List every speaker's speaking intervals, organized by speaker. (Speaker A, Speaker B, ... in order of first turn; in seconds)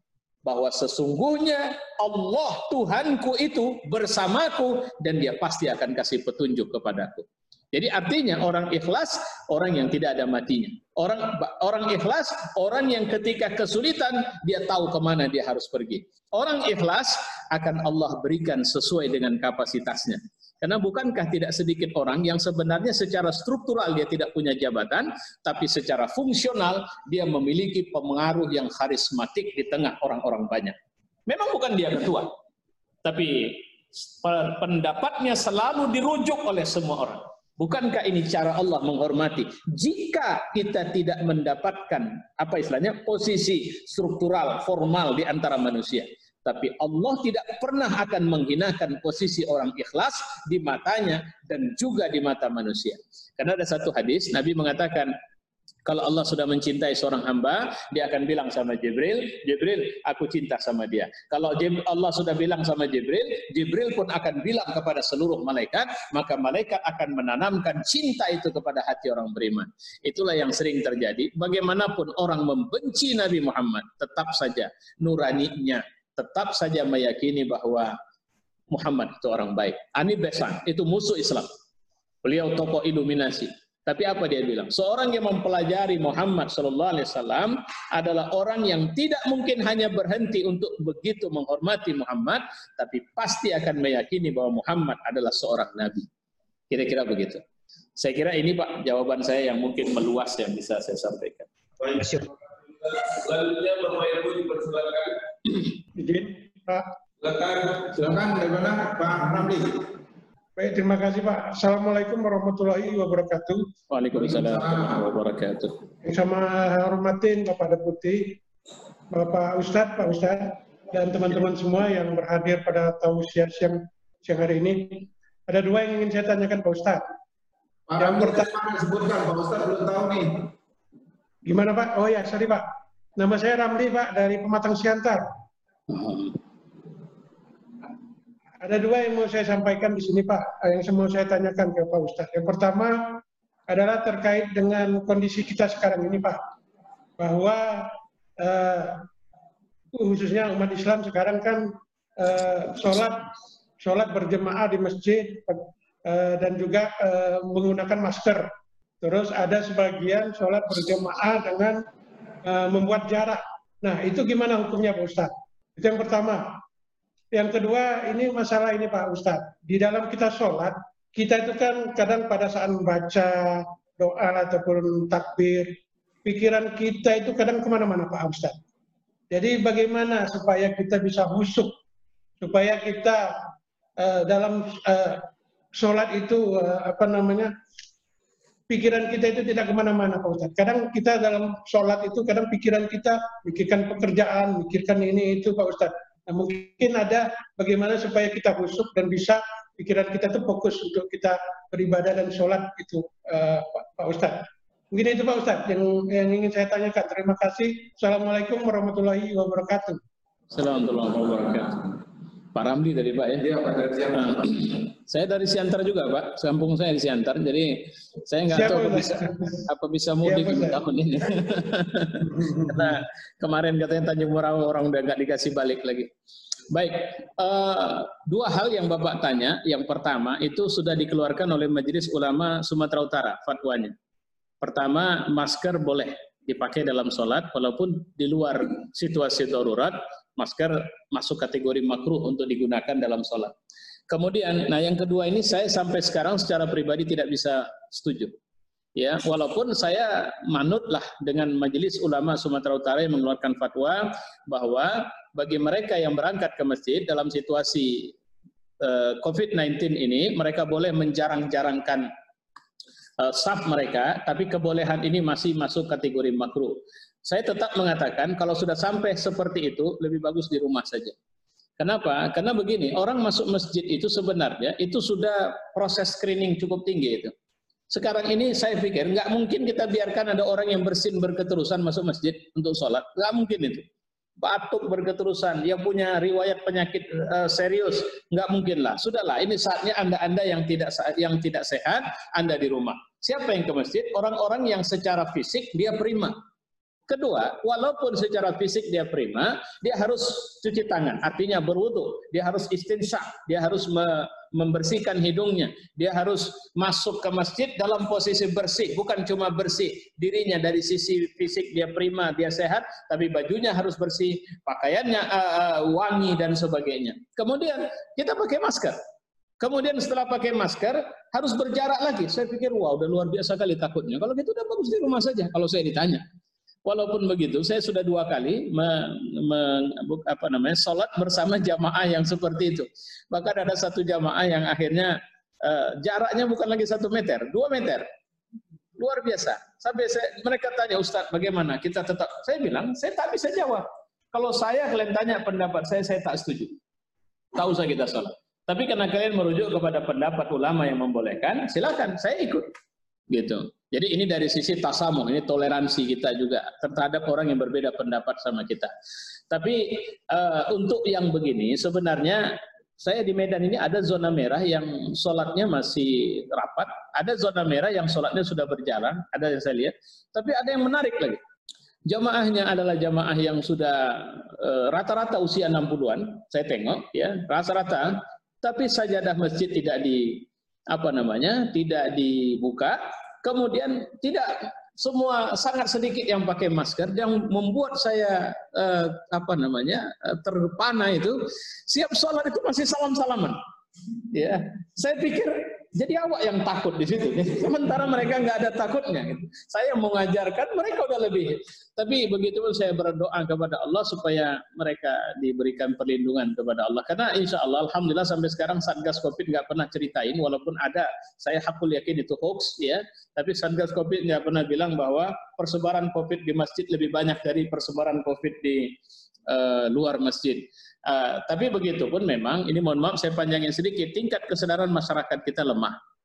Speaker A: 0.4-30.8, 31.3-32.3, 33.0-55.1, 55.9-77.9, 78.7-81.5, 82.2-96.1, 96.7-97.4, 98.0-101.5, 113.9-115.8, 135.9-136.3, 210.5-211.9, 212.5-213.4, 214.1-226.1, 226.7-233.9, 234.6-243.5, 244.1-248.3, 248.9-258.1, 258.8-262.1, 263.2-271.1, 271.8-277.3, 277.9-283.8, 284.4-296.4, 297.1-319.0, 319.6-326.2, 326.9-338.1, 339.0-346.7, 347.5-352.7, 353.3-358.9, 359.5-371.4, 372.1-393.6, 394.3-418.9, 419.5-426.0
Speaker B: 101.8-105.6, 107.2-107.8
Speaker C: 106.0-106.9, 110.5-113.7, 116.0-118.4, 119.1-127.0, 128.0-128.5, 131.4-135.2, 138.6-146.4, 147.2-149.0, 149.9-153.2, 153.8-158.5, 159.0-161.8, 162.4-166.6, 167.3-178.6, 179.3-181.8, 182.4-183.3, 184.0-185.2, 185.8-187.5, 188.7-210.0, 218.5-219.6, 220.2-220.8
Speaker D: 107.9-109.9, 114.3-114.9, 127.9-130.5, 213.4-214.5